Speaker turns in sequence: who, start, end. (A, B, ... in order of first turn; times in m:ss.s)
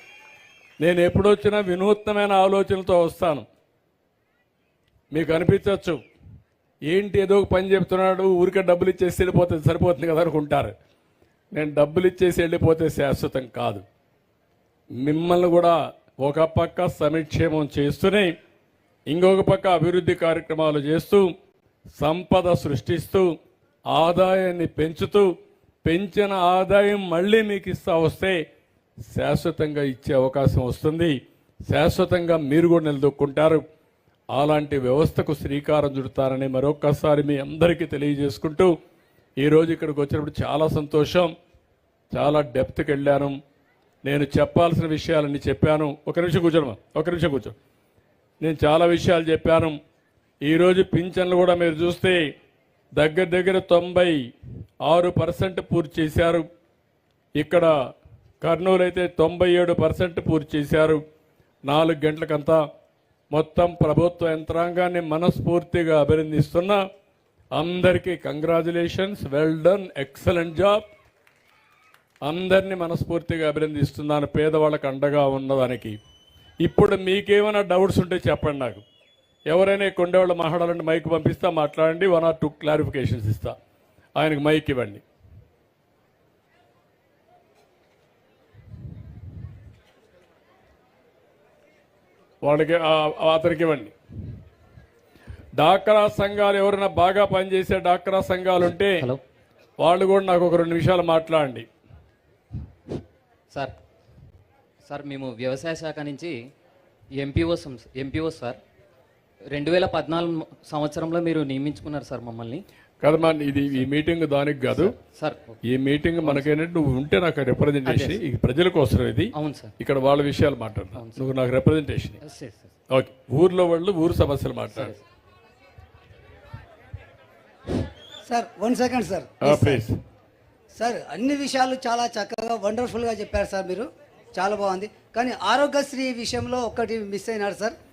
0:00.8-0:03.4 A
0:05.1-0:06.0 A
0:06.9-0:10.7 A
0:11.5-0:13.8 A
0:15.0-0:18.3 A
0:19.1-0:21.3 A
0:22.0-0:23.3 A
0:23.9-0:25.3 A
0:25.8-0:28.4 A
0:29.1-0:31.2 A
0:31.7-0:33.6 A
0:34.3-0:38.7 A
0:39.4-0:41.3 A
0:42.1-0:43.4 A
0:44.0-0:47.6 A
0:48.4-0:49.8 A
0:50.4-0:52.3 A
0:53.0-0:54.2 A
0:54.8-0:56.5 A
0:57.4-0:57.7 A
0:58.4-1:01.0 A
1:01.7-1:02.6 A
1:03.3-1:06.8 A
1:07.6-1:10.8 A
1:12.3-1:16.0 A
1:16.6-1:18.8 A
1:19.5-1:23.6 A
1:24.2-1:25.0 A
1:32.4-1:33.9 A
1:35.6-1:39.1 A
1:39.8-1:41.7 A
1:44.8-1:46.4 B
1:47.1-1:48.6 B
1:49.5-1:52.6 B
1:53.0-1:54.9 A
1:54.7-1:55.6 B
1:55.7-2:02.2 A
1:56.2-1:56.5 B
1:57.8-1:58.2 B
1:59.4-1:59.7 B
2:01.0-2:01.2 B
2:02.2-2:02.7 B
2:02.9-2:04.9 A
2:04.7-2:05.0 B
2:08.3-2:09.8 C
2:09.4-2:10.0 A
2:10.8-2:17.8 C